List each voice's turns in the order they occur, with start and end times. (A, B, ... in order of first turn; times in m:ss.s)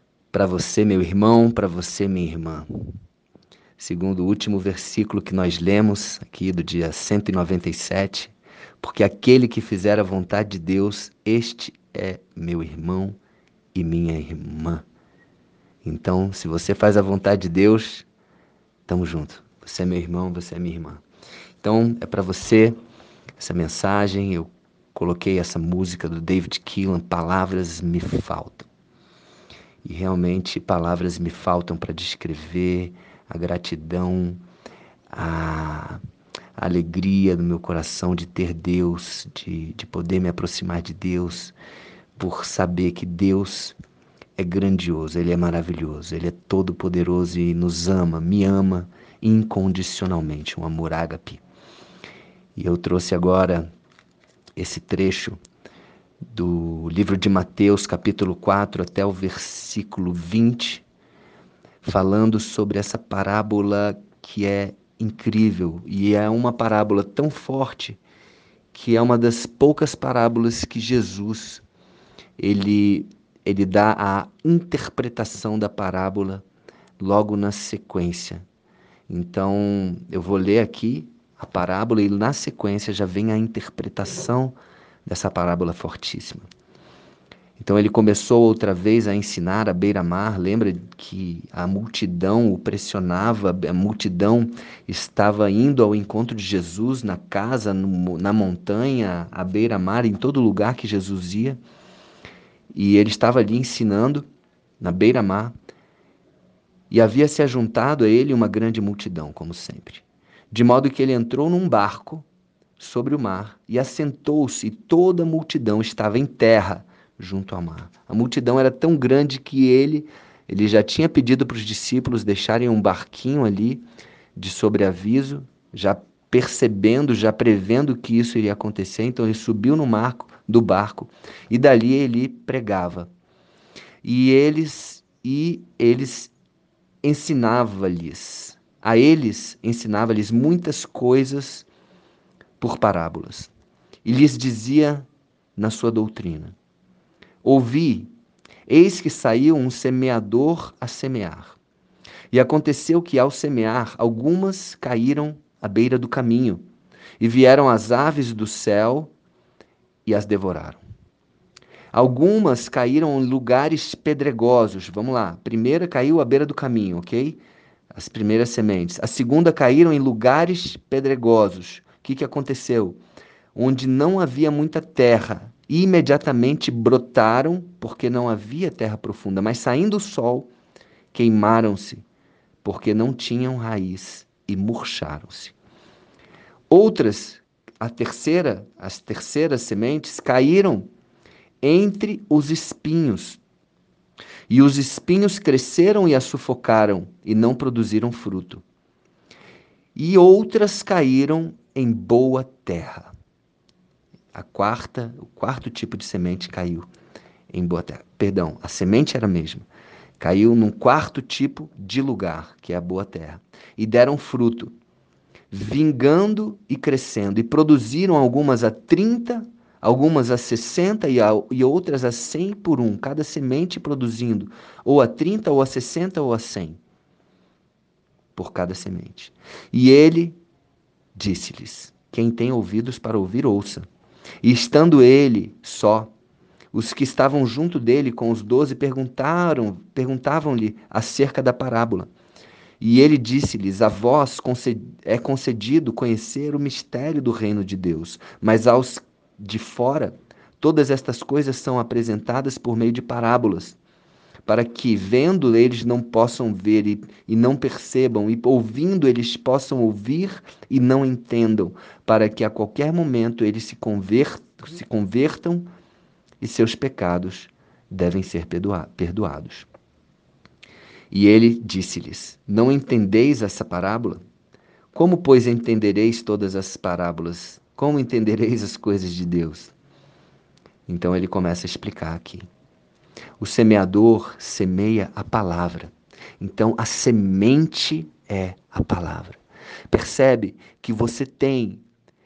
0:00.3-0:02.7 A
0:03.8-0:13.2 A
0:13.7-0:14.8 A
0:15.8-0:18.1 A
0:18.8-0:21.0 A
0:21.6-0:22.8 A
0:23.4-0:28.7 A
0:29.8-0:34.4 A
0:35.1-0:36.0 A
0:36.6-0:41.5 A
0:42.2-0:43.8 A
0:44.4-0:51.4 A
0:52.6-0:53.7 A
0:54.6-0:55.4 A
0:56.3-1:00.8 A
1:01.8-1:08.0 A
1:08.7-1:11.6 A
1:12.4-1:16.4 A
1:17.0-1:18.4 A
1:19.1-1:26.5 A
1:27.6-1:41.6 A
1:42.7-1:44.3 A
1:44.8-1:45.5 A
1:46.9-1:52.2 A
1:52.8-2:03.8 A
2:04.4-2:13.1 A
2:14.0-2:16.3 A
2:17.0-2:21.7 A
2:22.6-2:23.5 A
2:24.0-2:26.6 A
2:27.4-2:28.1 A
2:28.7-2:31.6 A
2:32.3-2:36.6 A
2:37.2-2:39.1 A
2:40.0-2:40.8 A
2:41.9-2:47.4 A
2:47.9-2:53.0 A
2:53.5-3:00.5 A
3:01.1-3:02.0 A
3:02.6-3:05.5 A
3:06.7-3:10.9 A
3:11.6-3:13.4 A
3:14.5-3:18.6 A
3:19.9-3:23.1 A
3:24.3-3:26.9 A
3:27.5-3:29.6 A
3:30.2-3:34.7 A
3:35.5-3:46.8 A
3:48.4-3:50.4 A
3:51.1-3:53.8 A
3:54.4-3:56.1 A
3:56.7-4:02.1 A
4:02.8-4:13.8 A
4:14.4-4:25.7 A
4:26.4-4:29.7 A
4:31.1-4:34.2 A
4:34.9-4:39.7 A
4:40.9-4:42.5 A
4:43.4-4:49.4 A
4:49.9-4:51.8 A